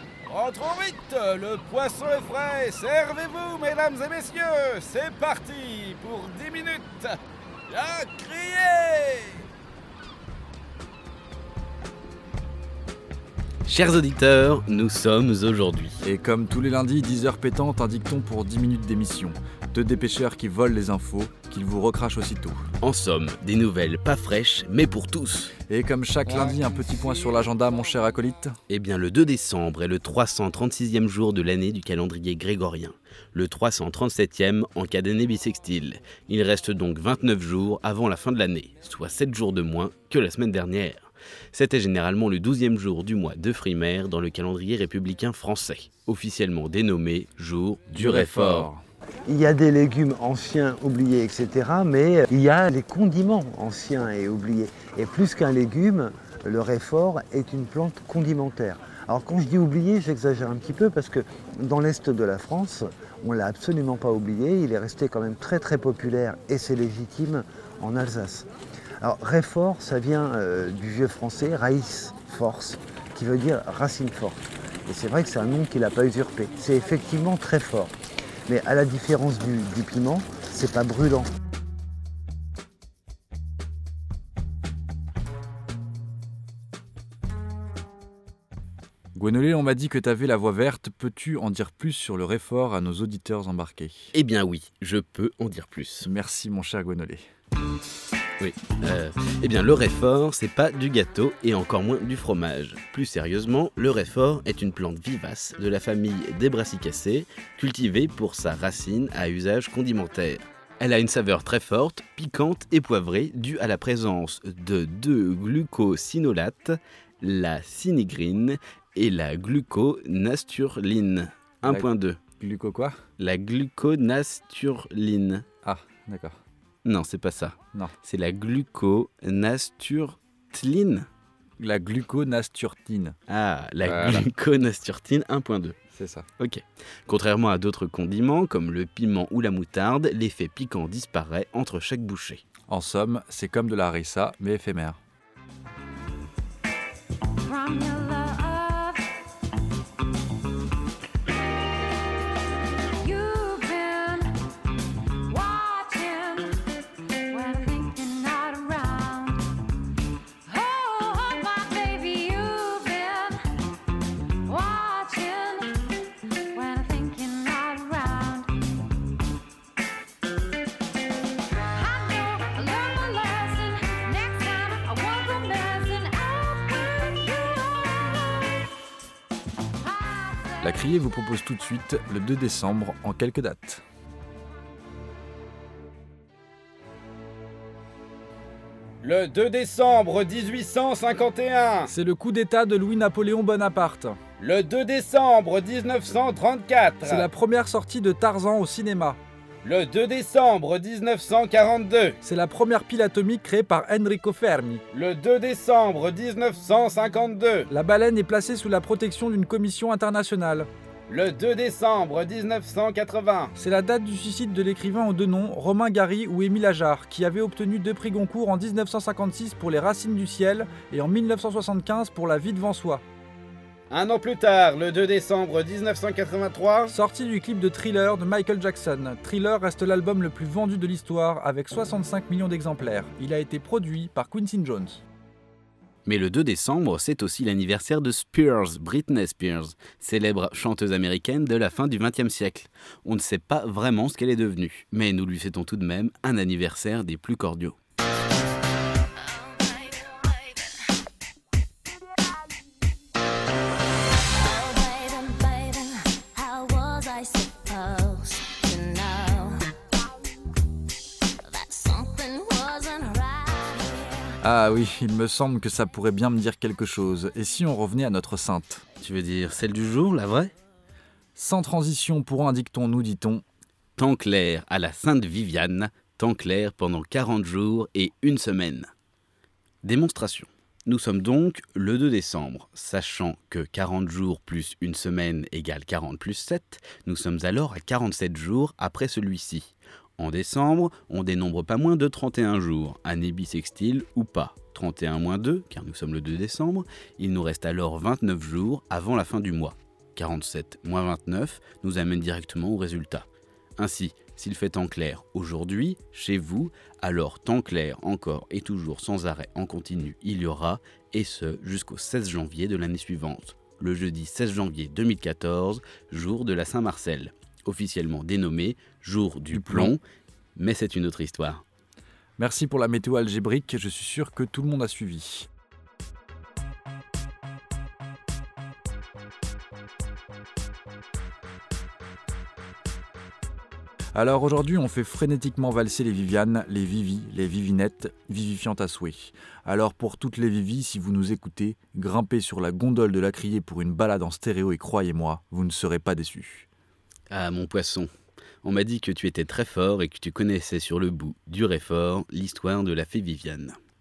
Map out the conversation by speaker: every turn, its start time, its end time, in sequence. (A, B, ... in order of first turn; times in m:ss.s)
0:00.3-0:01.8 A
0:00.3-0:07.0 B
0:02.6-0:03.0 A
0:05.2-0:07.1 A
0:07.7-0:09.4 A
0:07.7-0:09.0 B
0:13.6-0:16.0 A
0:16.0-0:22.6 C
0:22.8-0:25.5 A
0:25.7-0:28.5 C
0:28.7-0:48.7 A
0:47.9-0:48.8 C
0:49.2-1:08.5 D
1:09.0-1:17.9 D
1:18.5-1:21.3 D
1:29.1-1:34.1 C
1:34.1-1:36.1 A
1:36.0-1:37.2 C
1:38.4-2:02.2 A
2:01.6-2:03.0 C
2:03.2-2:05.4 A
2:05.6-2:06.4 C
2:06.8-2:11.1 A
2:11.6-2:13.2 C
2:13.3-2:15.8 A
2:13.8-2:14.3 C
2:15.9-2:16.3 C
2:16.4-2:22.4 A
2:22.7-2:25.0 C
2:27.4-2:29.1 E
2:33.0-2:34.4 E
2:35.2-2:39.7 E
2:40.4-2:43.6 E
2:44.4-2:48.6 E
2:51.7-2:58.6 E
2:59.8-3:00.6 E
3:00.6-3:03.8 C
3:09.0-3:11.9 B
3:11.8-3:14.2 C
3:14.4-3:17.3 B
3:17.0-3:19.2 C
3:19.6-3:22.2 B
3:22.2-3:24.8 C
3:24.9-3:27.7 B
3:27.7-3:30.7 C
3:31.1-3:33.5 B
3:33.5-3:43.0 C
3:43.9-3:46.9 B
3:46.9-3:55.0 C
3:56.0-4:07.8 A
4:14.4-4:19.6 F
4:21.4-4:24.3 F
4:24.4-4:28.8 C
4:29.0-4:30.5 A
4:31.3-4:33.4 C
4:34.0-4:38.9 A
4:39.8-5:03.3 A
5:03.8-5:20.0 A
5:19.5-5:19.9 C
5:20.6-5:21.6 A
5:22.4-5:25.5 C
5:34.1-5:46.7 C
5:47.3-5:48.1 A
5:48.6-5:53.8 A